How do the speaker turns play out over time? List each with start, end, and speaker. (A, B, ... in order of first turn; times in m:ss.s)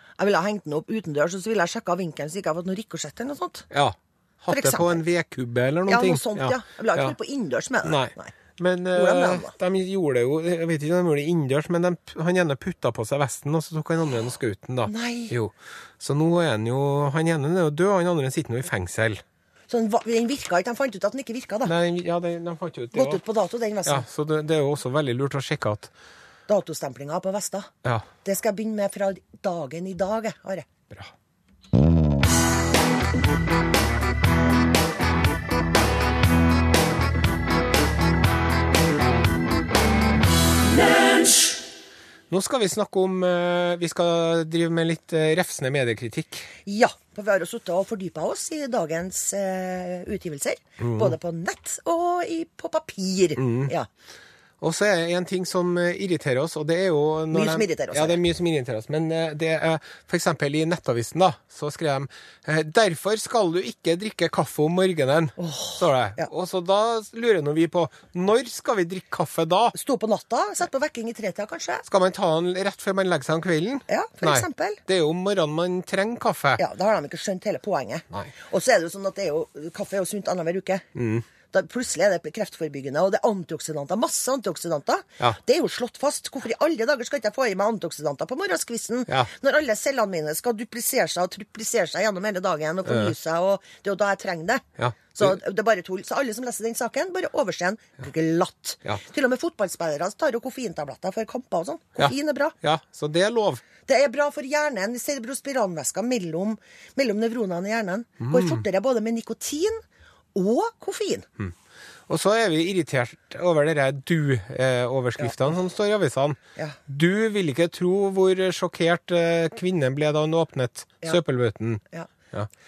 0:00.2-0:03.7 A
0:03.7-0:07.1 B
0:04.5-0:05.0 A
0:05.9-0:08.3 A
0:07.8-0:19.2 B
0:08.9-0:09.5 A
0:14.8-0:15.3 A
0:19.7-0:21.7 A
0:21.6-0:23.2 B
0:22.9-0:24.0 A
0:23.8-0:25.9 B
0:26.5-0:27.7 A
0:28.2-0:30.7 A
0:42.3-0:46.5 B
0:46.6-0:53.9 A
0:50.8-0:51.2 B
0:53.4-0:53.7 B
0:54.6-1:09.7 B
0:57.3-0:58.2 A
1:05.4-1:06.3 A
1:09.7-1:11.8 A
1:11.8-1:16.6 B
1:13.9-1:14.8 A
1:16.6-1:20.9 A
1:21.0-1:21.2 B
1:21.5-1:34.6 A
1:32.9-1:33.1 B
1:34.8-1:35.3 B
1:35.1-1:42.5 A
1:42.0-1:43.6 B
1:43.8-1:49.8 A
1:48.2-1:48.6 B
1:50.3-1:51.3 A
1:52.1-2:02.5 B